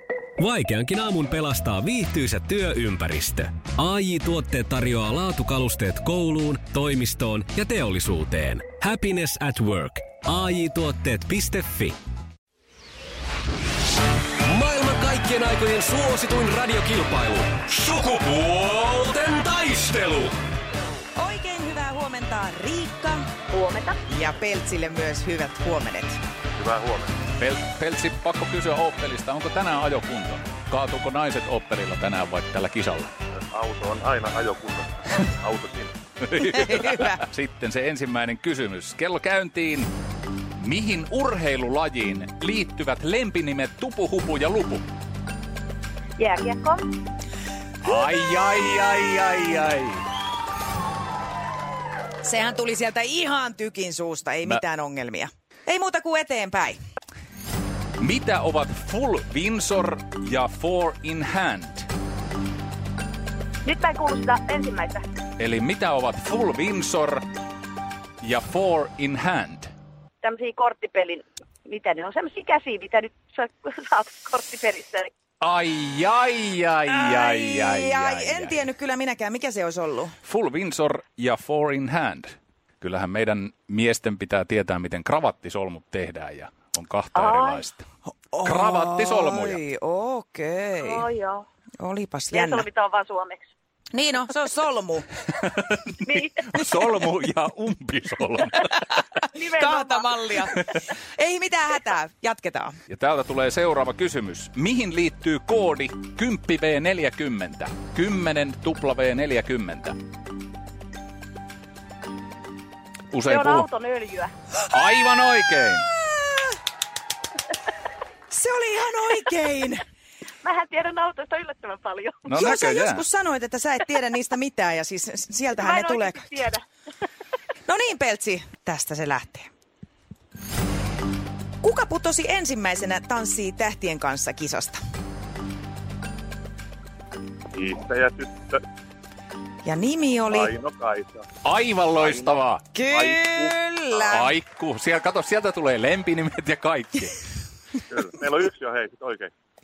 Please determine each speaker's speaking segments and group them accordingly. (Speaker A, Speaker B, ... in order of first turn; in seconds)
Speaker A: 0.4-12.0, 14.4-20.3
Speaker B: 21.1-23.2, 24.1-26.2, 36.4-37.2, 52.2-56.8, 76.9-80.1, 88.3-91.0, 91.8-92.7, 93.9-95.0, 99.5-102.8, 118.3-119.8, 122.3-126.2, 127.7-129.5, 131.6-134.8, 139.6-140.5, 142.7-144.3
Speaker C: 23.5-24.0, 46.2-46.8, 63.6-65.1, 70.2-75.1, 87.1-87.6, 90.8-91.5, 92.3-93.5, 96.0-96.4, 99.3-100.1, 113.3-114.3, 120.4-122.2, 125.6-126.6
Speaker D: 26.6-27.2, 33.5-36.0, 137.5-138.6, 140.3-141.2, 142.0-144.3, 147.9-149.3
Speaker E: 27.3-33.1, 36.2-39.9, 40.6-44.8, 47.8-50.0, 58.0-61.9, 65.4-67.2, 68.2-69.7, 75.4-78.7, 80.2-87.8, 88.4-89.6, 95.5-99.2, 102.9-110.0, 113.1-113.7, 114.7-115.9, 122.2-123.0, 141.4-142.6, 144.1-147.2